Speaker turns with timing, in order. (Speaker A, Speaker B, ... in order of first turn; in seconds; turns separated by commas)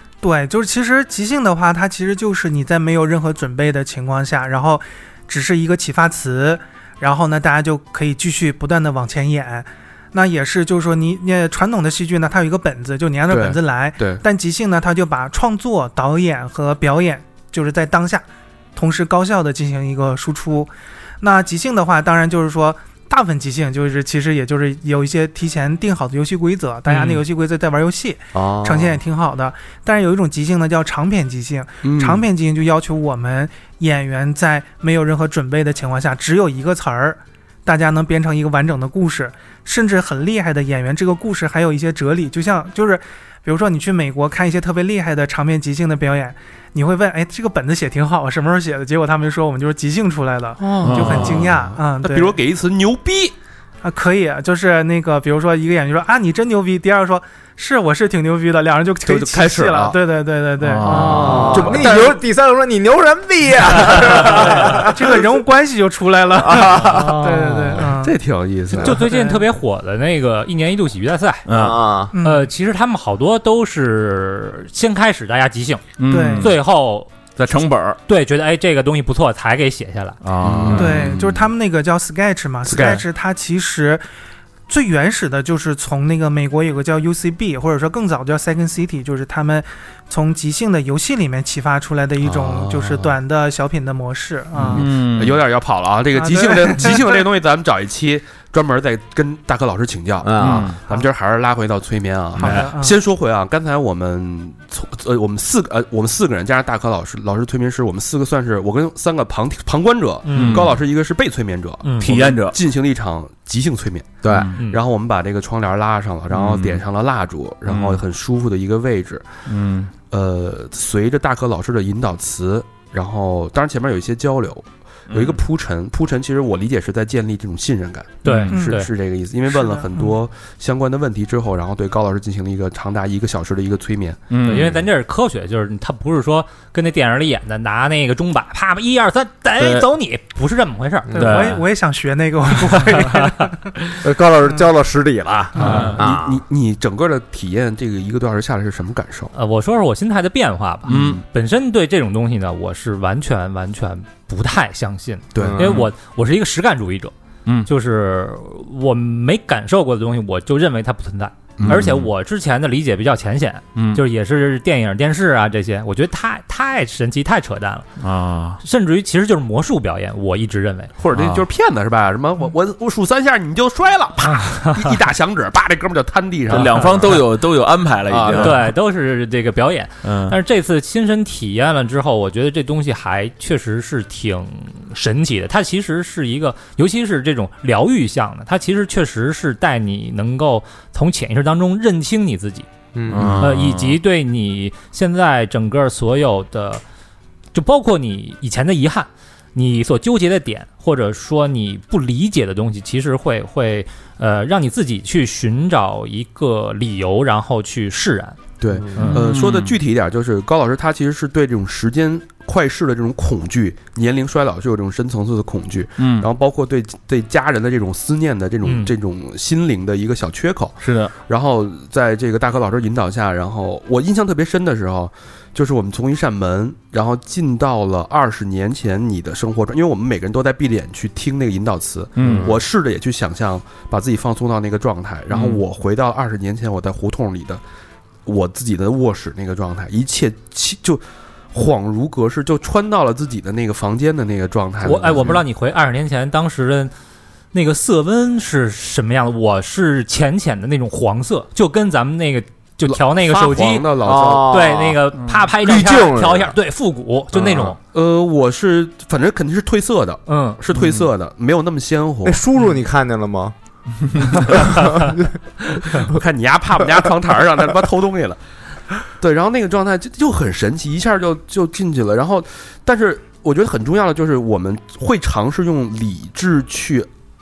Speaker A: 0.2-18.2, Speaker B: 13.3-14.2, Speaker A: 18.8-52.4, Speaker C: 26.9-27.2, Speaker D: 28.3-29.0, Speaker B: 31.8-32.2, Speaker B: 50.6-53.4, Speaker E: 50.8-51.5, Speaker A: 53.8-61.8, Speaker B: 59.0-60.0, Speaker E: 60.6-61.8, Speaker D: 60.9-65.2, Speaker B: 61.1-62.2, Speaker C: 63.9-64.7, Speaker A: 64.8-68.2, Speaker D: 66.3-67.8, Speaker C: 66.8-67.7, Speaker B: 68.0-69.0, Speaker A: 68.8-69.5, Speaker C: 68.8-71.5, Speaker E: 71.5-71.8, Speaker D: 71.5-72.1, Speaker A: 72.1-72.5, Speaker C: 72.2-77.1, Speaker E: 76.0-76.6, Speaker A: 76.1-76.5, Speaker E: 77.4-78.0, Speaker C: 78.1-80.2, Speaker E: 80.2-81.1, Speaker B: 80.4-81.4, Speaker A: 80.7-84.0, Speaker C: 82.7-83.0, Speaker A: 84.7-94.9, Speaker B: 92.2-93.2, Speaker B: 94.6-119.3, Speaker E: 94.7-95.4, Speaker A: 96.1-97.2, Speaker D: 100.2-100.8, Speaker E: 100.4-100.8, Speaker E: 102.4-102.7, Speaker A: 102.4-103.0, Speaker C: 110.2-110.7, Speaker E: 110.3-110.8, Speaker C: 111.8-112.1, Speaker E: 112.0-112.6, Speaker D: 114.2-114.5, Speaker E: 114.3-114.6, Speaker E: 116.3-116.8, Speaker E: 117.7-118.0, Speaker E: 119.5-119.9, Speaker B: 120.1-134.3, Speaker E: 125.1-125.4, Speaker E: 128.2-128.5, Speaker C: 128.2-128.9, Speaker A: 128.5-128.8, Speaker A: 129.5-130.2, Speaker E: 134.3-134.8, Speaker C: 134.4-141.5, Speaker E: 139.6-139.9, Speaker E: 141.1-141.6, Speaker A: 141.1-144.7, Speaker D: 144.0-146.4, Speaker B: 145.6-149.3, Speaker E: 145.6-146.0, Speaker A: 145.6-145.9, Speaker C: 149.3-157.1, Speaker E: 150.9-151.2, Speaker B: 150.9-151.2, Speaker B: 155.3-155.6, Speaker D: 155.4-155.9, Speaker C: 157.7-167.9, Speaker B: 161.6-162.0, Speaker E: 161.7-162.0, Speaker E: 163.8-164.0, Speaker E: 168.0-168.6, Speaker C: 168.6-170.9, Speaker B: 171.0-177.2, Speaker E: 171.1-171.5, Speaker E: 176.5-178.7, Speaker D: 178.1-178.6, Speaker C: 178.3-192.7, Speaker E: 180.0-180.4, Speaker D: 192.9-193.5, Speaker E: 193.1-194.0, Speaker C: 193.4-196.8, Speaker C: 197.5-208.4, Speaker B: 208.6-237.6, Speaker C: 209.0-209.3, Speaker E: 209.0-209.8, Speaker E: 216.0-216.3, Speaker C: 218.7-218.9, Speaker E: 220.8-221.1, Speaker E: 232.2-232.6, Speaker D: 232.2-232.6, Speaker E: 235.3-235.6, Speaker B: 238.3-241.0, Speaker B: 241.5-245.4, Speaker C: 244.8-246.9, Speaker C: 247.5-257.8, Speaker B: 252.9-254.6, Speaker D: 254.0-255.1, Speaker D: 255.6-256.5, Speaker B: 257.9-262.4, Speaker C: 260.3-260.6, Speaker E: 260.8-261.1, Speaker D: 262.2-263.6, Speaker D: 264.2-265.3, Speaker B: 266.0-268.4, Speaker B: 269.1-277.1